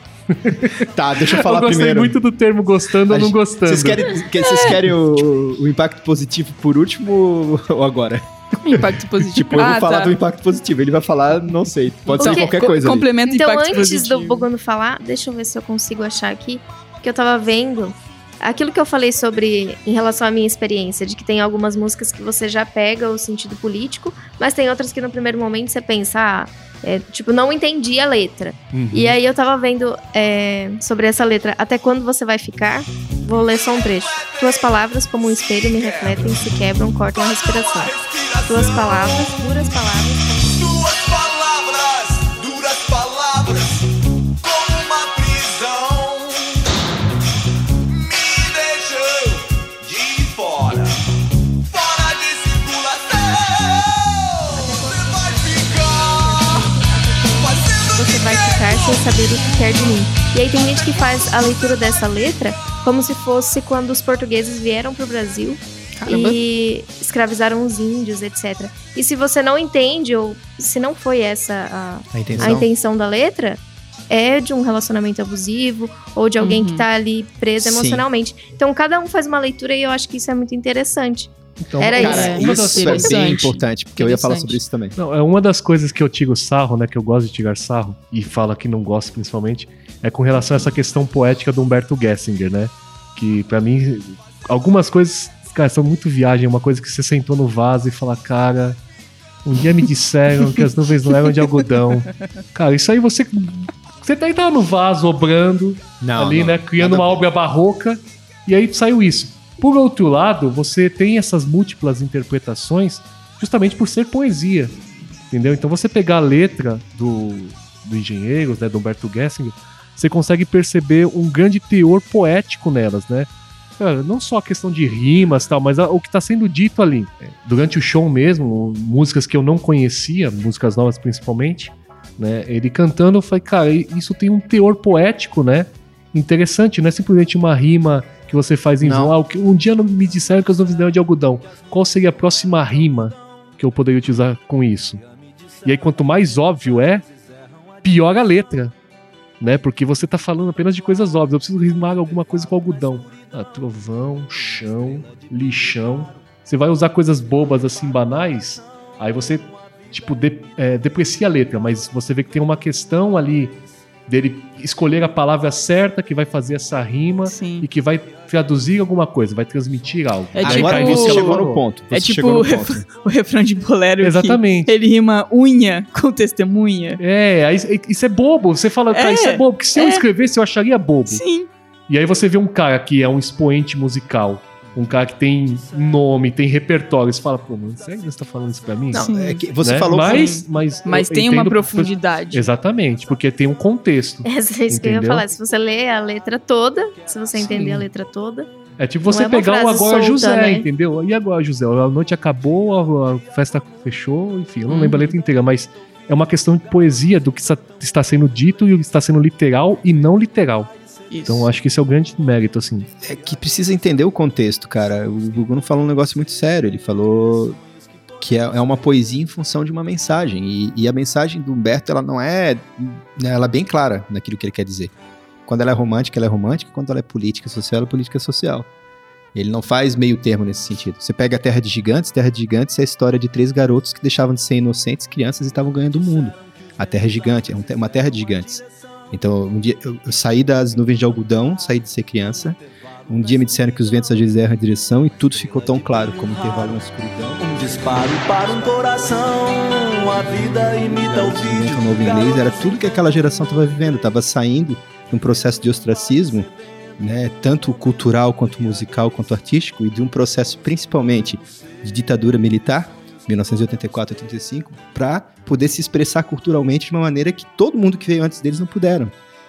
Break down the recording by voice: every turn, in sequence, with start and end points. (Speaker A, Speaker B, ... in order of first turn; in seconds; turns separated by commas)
Speaker A: 0.3-4.2, Speaker B: 0.8-2.2, Speaker B: 3.1-13.1, Speaker C: 4.4-4.8, Speaker C: 8.6-10.2, Speaker C: 12.2-14.5, Speaker D: 12.2-12.5, Speaker D: 13.3-38.0, Speaker A: 28.7-29.2, Speaker E: 33.8-34.7, Speaker E: 35.5-36.2, Speaker E: 37.2-39.6, Speaker D: 38.5-40.8, Speaker E: 40.4-46.7, Speaker E: 47.8-56.7, Speaker D: 54.5-82.4, Speaker E: 57.3-59.2, Speaker B: 66.0-66.4, Speaker B: 72.1-72.7, Speaker C: 76.4-76.8, Speaker B: 77.6-78.1, Speaker A: 81.6-83.3, Speaker B: 81.9-85.0, Speaker C: 82.0-84.6, Speaker A: 85.0-98.8, Speaker A: 99.5-114.8, Speaker B: 106.0-107.3, Speaker A: 115.3-123.3, Speaker A: 123.8-145.0, Speaker B: 138.8-139.2, Speaker A: 145.7-147.1, Speaker A: 147.8-148.7, Speaker A: 149.4-171.6, Speaker C: 167.3-167.7, Speaker C: 170.3-177.0, Speaker B: 170.4-172.8, Speaker A: 174.0-174.7, Speaker A: 177.0-181.2, Speaker C: 178.9-180.1, Speaker C: 181.1-181.5, Speaker A: 181.9-189.1, Speaker B: 188.9-190.4, Speaker C: 188.9-189.4, Speaker A: 189.6-195.2, Speaker C: 190.0-192.5, Speaker D: 194.3-198.5, Speaker A: 197.3-197.9, Speaker A: 198.8-210.7, Speaker D: 199.1-200.7, Speaker C: 204.7-205.2, Speaker C: 211.1-211.5, Speaker A: 211.3-212.9, Speaker B: 213.0-217.6, Speaker B: 218.2-224.9, Speaker B: 225.5-228.7, Speaker B: 229.3-247.6, Speaker E: 247.4-252.5, Speaker B: 251.1-269.1